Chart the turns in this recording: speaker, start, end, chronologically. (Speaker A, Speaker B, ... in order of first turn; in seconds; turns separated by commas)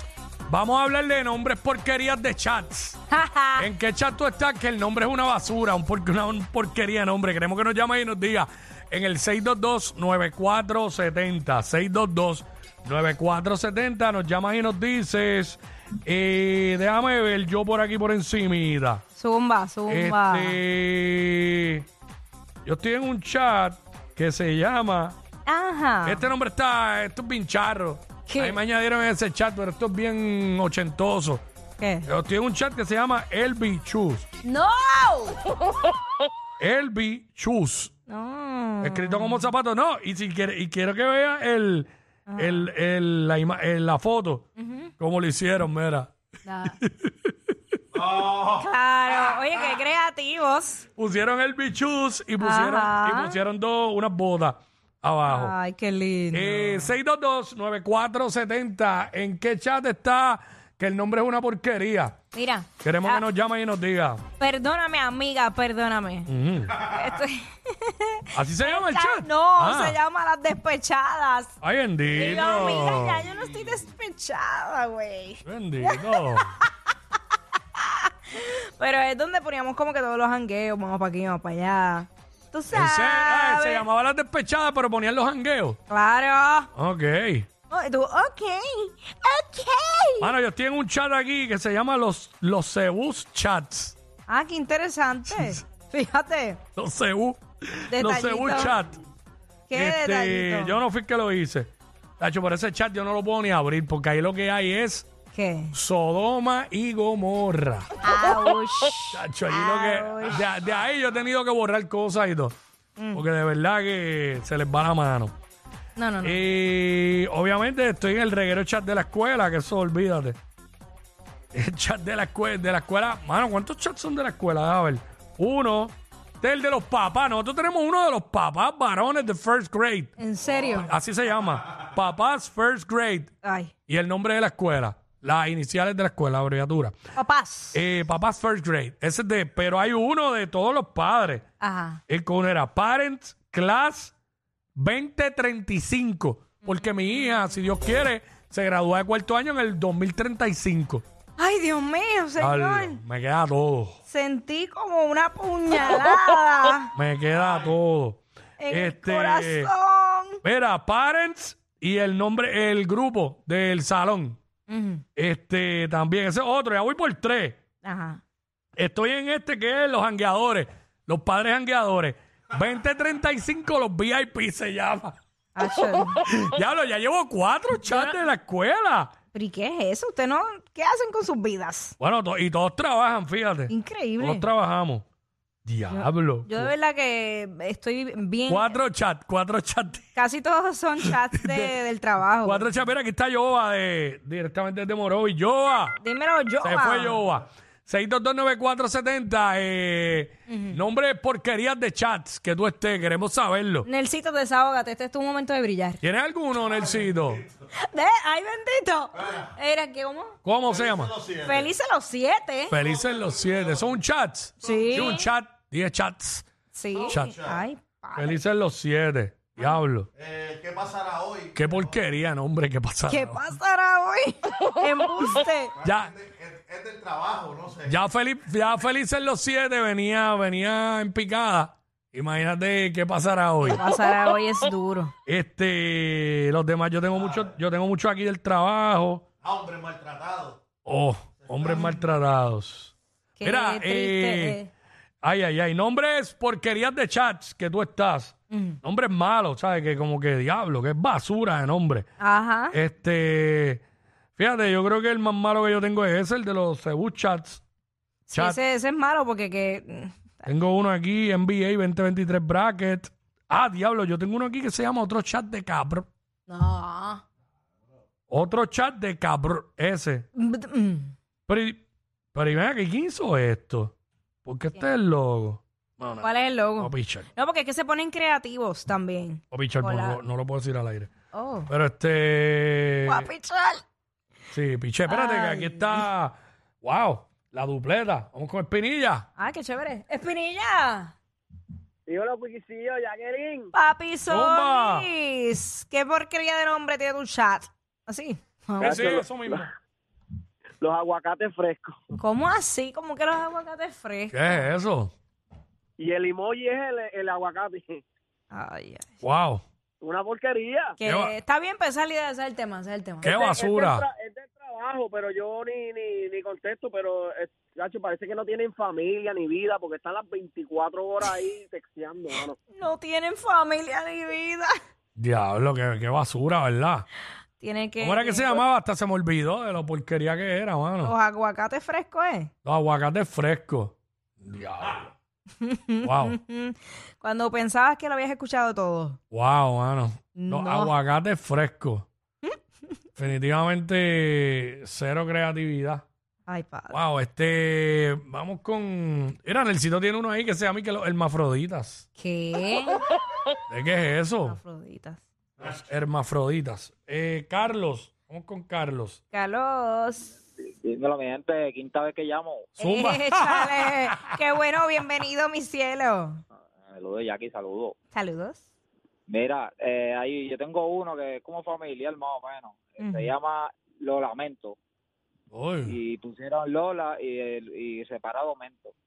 Speaker A: 0.5-3.0, Speaker B: 3.1-3.7, Speaker A: 3.6-19.0, Speaker B: 19.1-20.6, Speaker A: 19.9-21.8, Speaker A: 22.6-25.1, Speaker B: 25.4-26.3, Speaker A: 26.0-31.4, Speaker B: 28.3-28.6, Speaker B: 31.8-32.1, Speaker A: 32.1-34.2, Speaker B: 34.4-35.4, Speaker A: 36.6-37.9, Speaker B: 38.1-39.5, Speaker A: 38.8-44.5, Speaker B: 42.3-42.7, Speaker B: 44.6-44.9, Speaker A: 45.0-46.1, Speaker B: 46.5-46.7, Speaker A: 46.8-47.3, Speaker B: 48.5-50.9, Speaker A: 51.0-55.5, Speaker B: 52.4-53.4, Speaker B: 55.3-56.9, Speaker A: 56.3-62.2, Speaker B: 62.3-63.2, Speaker A: 62.8-64.2, Speaker B: 64.4-71.5, Speaker A: 66.3-66.8, Speaker A: 68.3-70.0, Speaker A: 71.6-73.2, Speaker B: 72.1-76.7, Speaker A: 75.4-76.5, Speaker B: 77.8-83.8, Speaker A: 82.7-85.8, Speaker B: 85.9-86.7, Speaker A: 86.7-87.5, Speaker B: 87.7-90.3, Speaker A: 90.2-94.0, Speaker B: 94.3-96.6, Speaker A: 95.3-95.6, Speaker A: 96.8-99.0, Speaker B: 97.9-98.8, Speaker B: 99.7-100.8, Speaker A: 99.7-105.0, Speaker B: 105.3-105.7, Speaker A: 105.7-107.9, Speaker B: 108.0-110.4, Speaker A: 109.1-112.5, Speaker B: 113.0-113.2, Speaker A: 113.1-115.3, Speaker B: 116.0-116.4, Speaker A: 116.2-120.4, Speaker A: 121.5-133.3, Speaker B: 130.2-130.9, Speaker B: 133.4-133.7, Speaker A: 133.9-136.9, Speaker B: 137.2-137.8, Speaker A: 137.7-141.4, Speaker B: 141.6-142.0, Speaker A: 142.1-144.1, Speaker A: 144.8-151.0, Speaker B: 151.4-153.0, Speaker A: 152.4-154.0, Speaker B: 154.1-156.9, Speaker A: 156.9-159.7, Speaker B: 158.6-160.4, Speaker A: 160.4-164.4, Speaker B: 164.7-165.0, Speaker A: 165.2-167.6, Speaker B: 167.8-168.2, Speaker A: 168.8-175.2, Speaker B: 175.6-176.2, Speaker A: 176.2-179.1, Speaker B: 177.9-178.1, Speaker B: 179.3-181.9, Speaker A: 182.0-185.0, Speaker B: 183.7-184.4, Speaker A: 185.6-186.7, Speaker B: 185.9-188.8, Speaker A: 188.5-190.1, Speaker B: 190.2-192.7, Speaker A: 191.0-191.7, Speaker A: 192.4-196.0, Speaker B: 196.0-197.2, Speaker A: 196.6-203.9, Speaker B: 200.5-200.8, Speaker B: 203.8-206.0, Speaker A: 206.0-207.4, Speaker B: 207.7-210.3, Speaker A: 210.4-211.1, Speaker C: 210.7-211.7, Speaker B: 211.4-212.7, Speaker A: 212.7-216.4, Speaker C: 212.7-213.9, Speaker B: 214.6-215.3, Speaker B: 216.7-218.4, Speaker A: 218.1-220.1, Speaker C: 220.2-221.9, Speaker A: 221.5-223.4, Speaker B: 223.1-225.7, Speaker A: 225.8-226.1, Speaker C: 225.9-227.9, Speaker A: 227.8-233.8, Speaker B: 233.6-235.1, Speaker A: 235.2-239.2, Speaker C: 239.4-240.6, Speaker A: 240.8-244.6, Speaker B: 243.3-244.7, Speaker A: 245.2-252.1, Speaker B: 248.5-248.8, Speaker B: 252.2-252.7, Speaker A: 252.7-253.8, Speaker A: 254.4-257.6, Speaker B: 258.3-260.5, Speaker A: 258.3-258.6, Speaker A: 260.5-266.1, Speaker B: 266.5-267.2, Speaker A: 268.3-270.3, Speaker B: 270.4-271.1, Speaker A: 271.5-271.8, Speaker A: 272.3-273.9, Speaker A: 274.4-277.3, Speaker B: 276.2-280.2, Speaker A: 279.5-281.1, Speaker B: 281.3-281.7, Speaker A: 281.7-283.3, Speaker B: 283.1-283.8, Speaker A: 284.5-289.3, Speaker B: 285.1-286.0, Speaker B: 289.4-291.1, Speaker D: 292.1-293.7, Speaker B: 293.7-299.1, Speaker A: 294.3-295.1, Speaker D: 298.8-299.7, Speaker A: 298.8-299.7, Speaker D: 300.8-301.9, Speaker B: 302.2-304.7, Speaker A: 304.3-305.1, Speaker D: 306.0-308.0, Speaker B: 308.5-309.1, Speaker A: 309.2-309.6, Speaker D: 310.0-310.9, Speaker B: 311.0-313.4, Speaker A: 311.0-311.3, Speaker A: 313.2-314.0, Speaker D: 313.2-322.6, Speaker B: 322.7-324.7, Speaker A: 325.2-327.1, Speaker B: 327.6-328.6, Speaker A: 328.0-331.1, Speaker B: 331.0-332.5, Speaker A: 332.6-335.1, Speaker B: 335.6-339.2, Speaker A: 336.0-336.4, Speaker A: 339.3-342.1, Speaker B: 340.4-340.9, Speaker A: 343.2-346.0, Speaker B: 346.5-346.9, Speaker A: 346.9-352.1, Speaker B: 352.2-353.0, Speaker A: 353.7-354.6, Speaker B: 354.4-355.2, Speaker A: 355.6-359.2, Speaker B: 359.3-360.3, Speaker E: 360.8-362.7, Speaker A: 362.8-364.3, Speaker B: 362.8-366.4, Speaker E: 366.8-367.9, Speaker B: 368.1-368.6, Speaker E: 369.3-374.8, Speaker B: 373.0-373.3, Speaker A: 375.5-375.9, Speaker E: 375.9-378.9